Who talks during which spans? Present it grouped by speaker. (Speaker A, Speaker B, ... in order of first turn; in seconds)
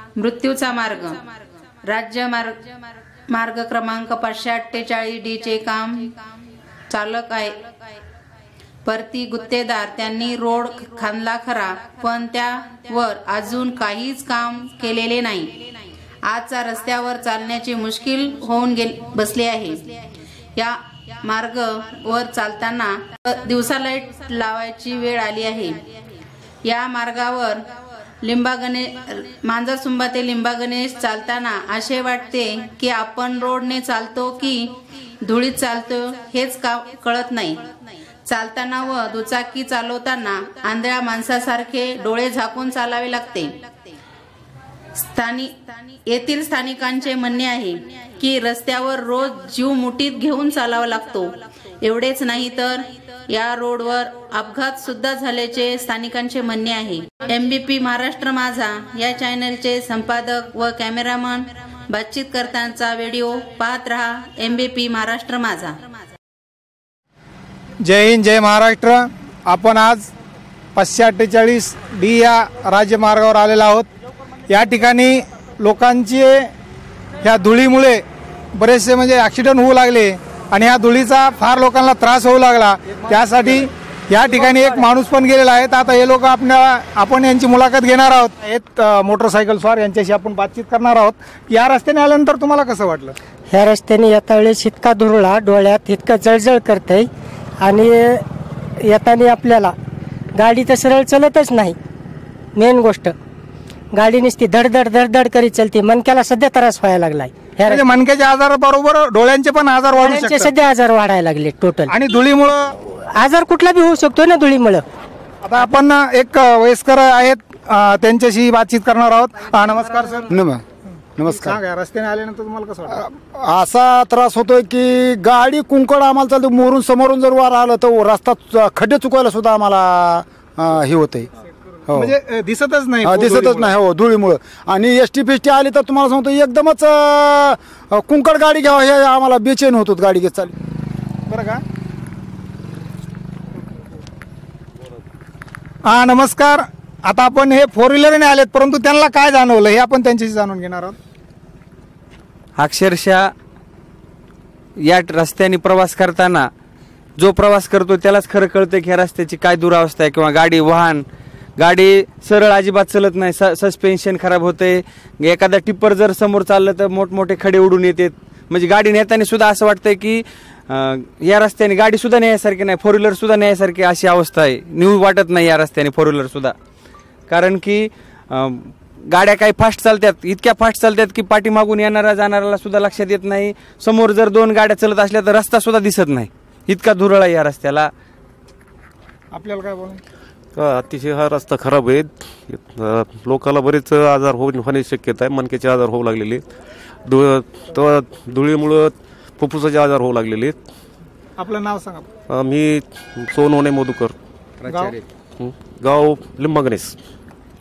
Speaker A: 0.2-1.2, 1.8-6.2, 6.9-7.7, 8.8-15.6, 16.2-20.0, 20.6-26.0, 26.6-27.6, 28.2-37.7, 38.2-43.7, 44.9-65.9
Speaker B: 67.8-70.1, 70.7-73.9, 74.5-76.5, 77.2-93.1, 107.6-110.5, 111.9-112.7, 115.4-120.3, 121.2-123.0, 131.9-133.7, 141.3-141.6, 145.8-150.9, 189.3-190.0, 201.4-202.1, 204.6-205.0
Speaker C: 93.5-97.1, 97.6-98.2, 98.9-99.7, 100.4-101.8, 102.5-103.1, 103.9-107.8, 109.9-111.9, 113.2-114.8
Speaker D: 120.3-120.6, 121.2-121.6, 122.9-131.3, 131.9-132.1, 133.0-140.5
Speaker E: 152.6-153.3, 154.8-156.5, 157.2-176.6, 177.3-187.9
Speaker F: 190.5-196.4, 197.1-200.6, 202.3-204.1, 205.4-207.0